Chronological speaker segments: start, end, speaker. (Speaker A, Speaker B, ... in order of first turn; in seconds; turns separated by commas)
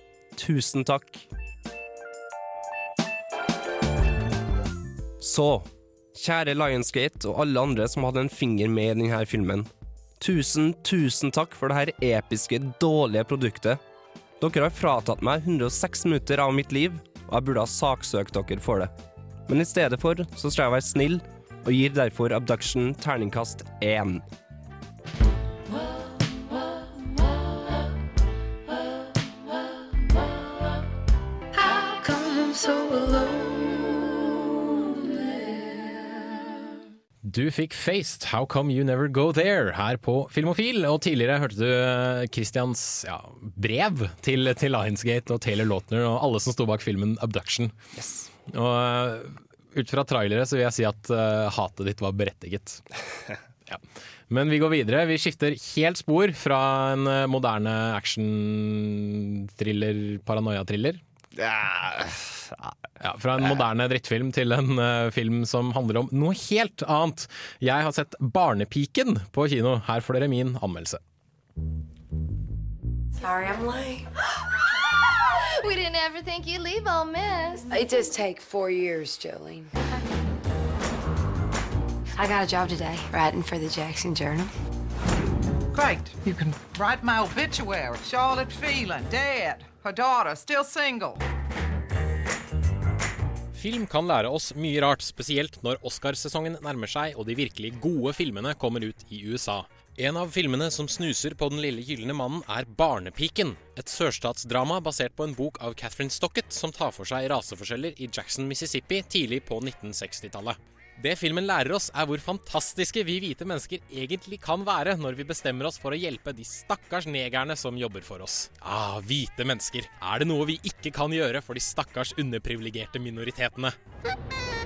Speaker A: 0.3-1.2, Speaker A: 5.2-9.7, Speaker A: 10.2-13.8, Speaker A: 14.4-18.9, Speaker A: 19.5-24.2, Speaker B: 37.2-47.7, Speaker A: 48.0-48.3, Speaker B: 48.5-52.8, Speaker B: 53.7-61.0, Speaker A: 61.4-62.2, Speaker B: 63.0-71.0, Speaker C: 73.2-74.1, Speaker D: 75.4-77.7, Speaker C: 77.7-79.7, Speaker C: 82.2-84.5, Speaker E: 85.7-91.2, Speaker B: 93.5-123.8